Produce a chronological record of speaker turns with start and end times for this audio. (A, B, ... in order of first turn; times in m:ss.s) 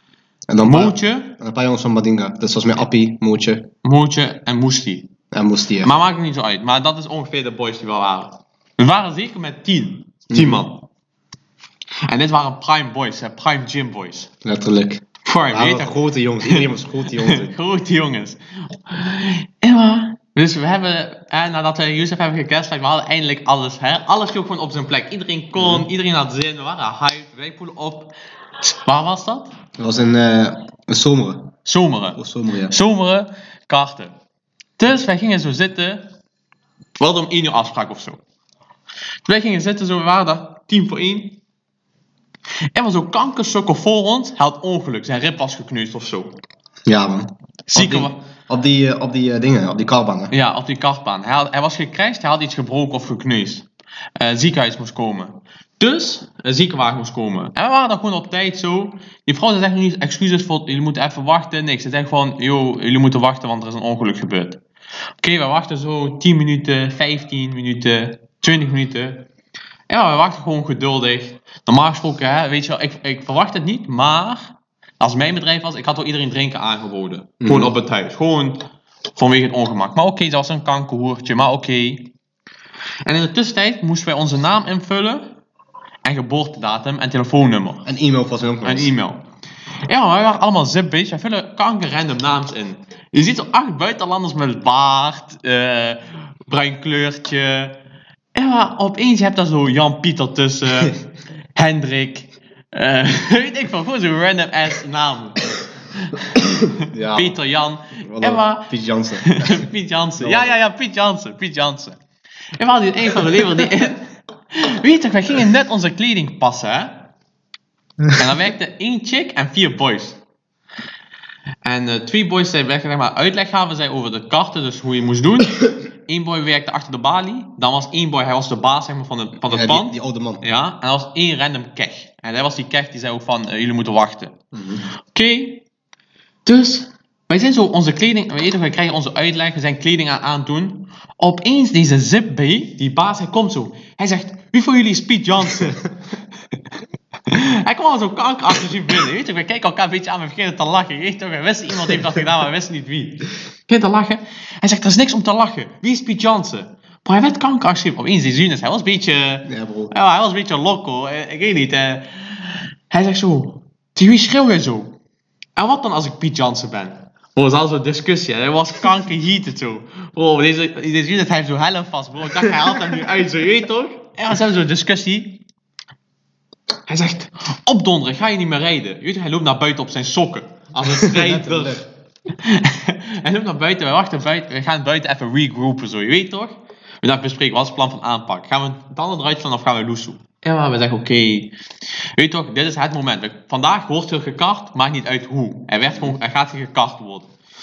0:00.5-0:03.7 A
0:00.6-0:01.3 B
0:03.8-0:05.1 B
0:05.3-0:05.9 A
0:05.8-0:10.8 B
0:10.3-0:10.7 A
0:12.0-0:14.3 B
0:14.4-0:17.5 A
0:15.2-0:29.6 B
0:25.6-0:25.8 A
0:29.8-0:31.6 A
0:31.6-0:34.1 B
0:32.1-0:32.8 A
0:34.8-0:36.1 B
0:37.0-0:38.2 B
0:39.2-0:41.4 B
0:42.7-0:46.4 B
0:46.9-0:50.3 A
0:47.7-0:48.2 B
0:50.3-1:04.6 B
1:05.2-1:09.2 B
1:09.9-1:18.6 B
1:17.4-1:17.7 A
1:19.1-1:22.1 B
1:23.0-1:25.3 B
1:26.0-1:27.8 B
1:27.8-1:28.9 A
1:28.6-1:29.2 B
1:29.8-1:37.7 B
1:38.3-1:52.0 B
1:46.7-1:47.4 A
1:48.0-1:49.7 A
1:50.2-1:50.6 A
1:52.6-1:57.0 B
1:58.2-2:00.2 B
2:01.6-2:14.3 B
2:09.4-2:10.4 A
2:14.5-2:14.9 A
2:15.1-2:15.6 B
2:16.4-2:25.8 B
2:27.3-2:45.0 B
2:39.4-2:39.9 A
2:45.6-2:55.4 B
2:56.9-3:11.5 B
3:00.8-3:01.8 A
3:12.2-3:17.3 B